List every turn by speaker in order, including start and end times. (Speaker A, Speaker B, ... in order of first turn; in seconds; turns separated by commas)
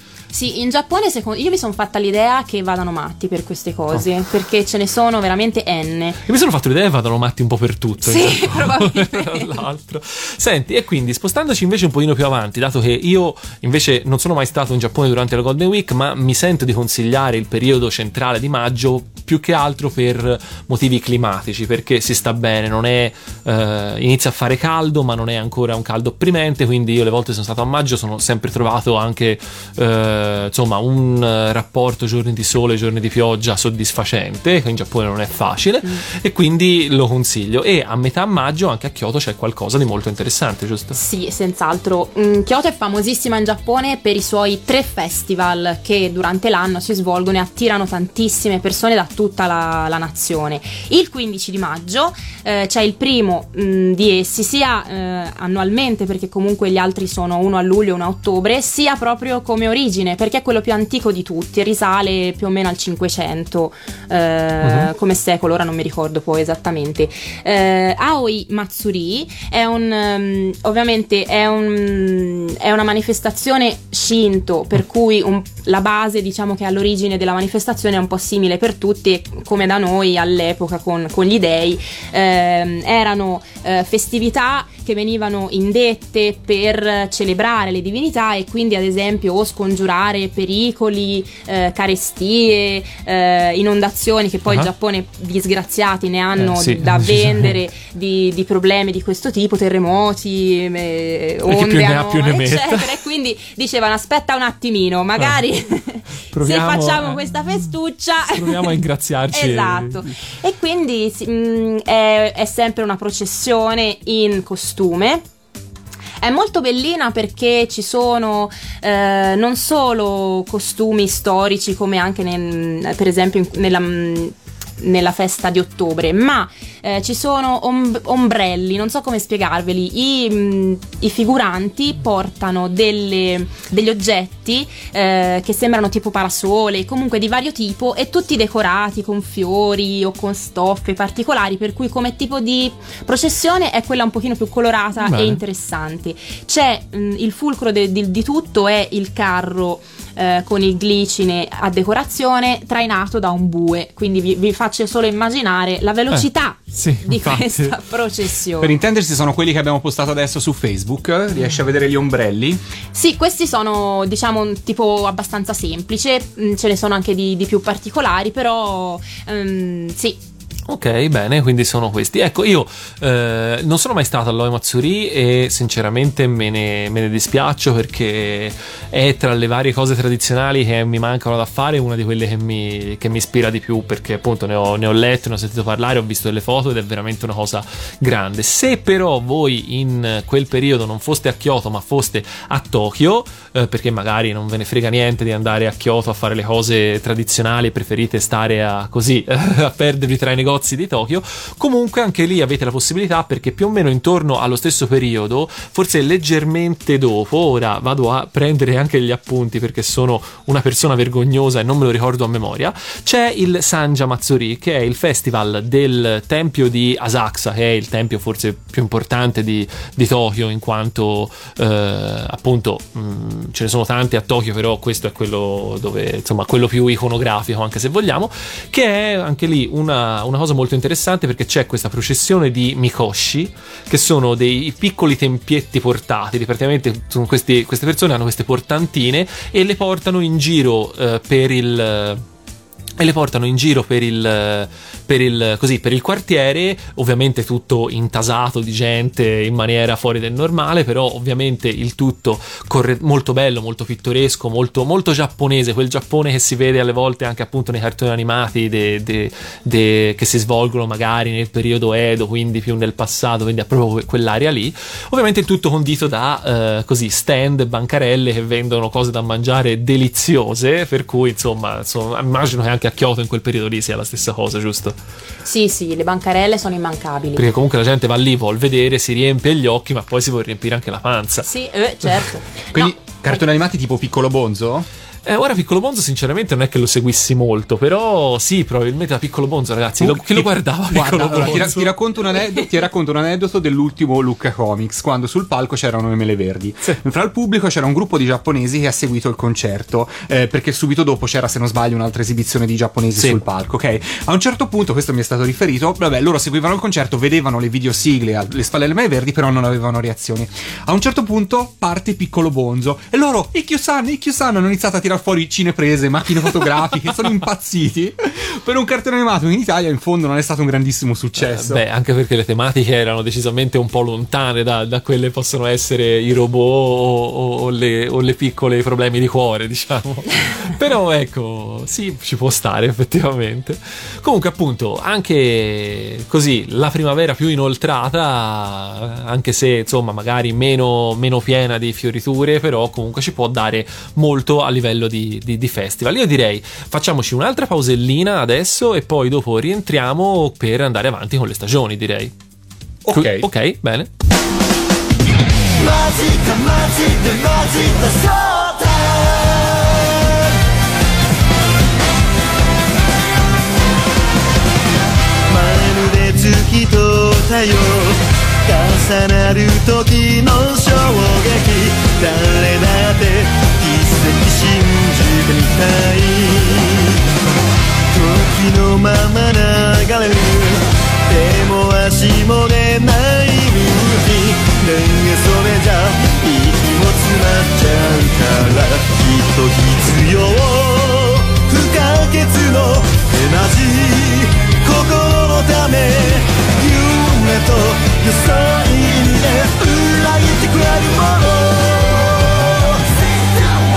Speaker A: 0.3-6.2, Speaker B: 6.3-41.0, Speaker A: 8.1-9.5, Speaker A: 40.9-108.8, Speaker B: 64.6-64.9, Speaker B: 96.4-97.6, Speaker B: 101.5-102.9, Speaker B: 106.3-107.5, Speaker B: 108.3-110.1, Speaker A: 109.3-115.2, Speaker A: 116.2-158.7, Speaker B: 145.0-145.4, Speaker B: 156.1-157.8, Speaker C: 158.6-162.6, Speaker A: 162.9-170.2, Speaker B: 170.7-242.2, Speaker B: 243.0-274.9, Speaker A: 275.4-277.4, Speaker B: 277.4-281.5, Speaker A: 281.4-283.4, Speaker C: 282.7-284.9, Speaker B: 285.3-291.9, Speaker C: 290.0-321.8, Speaker B: 321.4-352.3, Speaker C: 353.1-353.5, Speaker B: 353.1-354.1, Speaker D: 355.8-360.4, Speaker D: 365.5-377.1, Speaker D: 378.1-403.1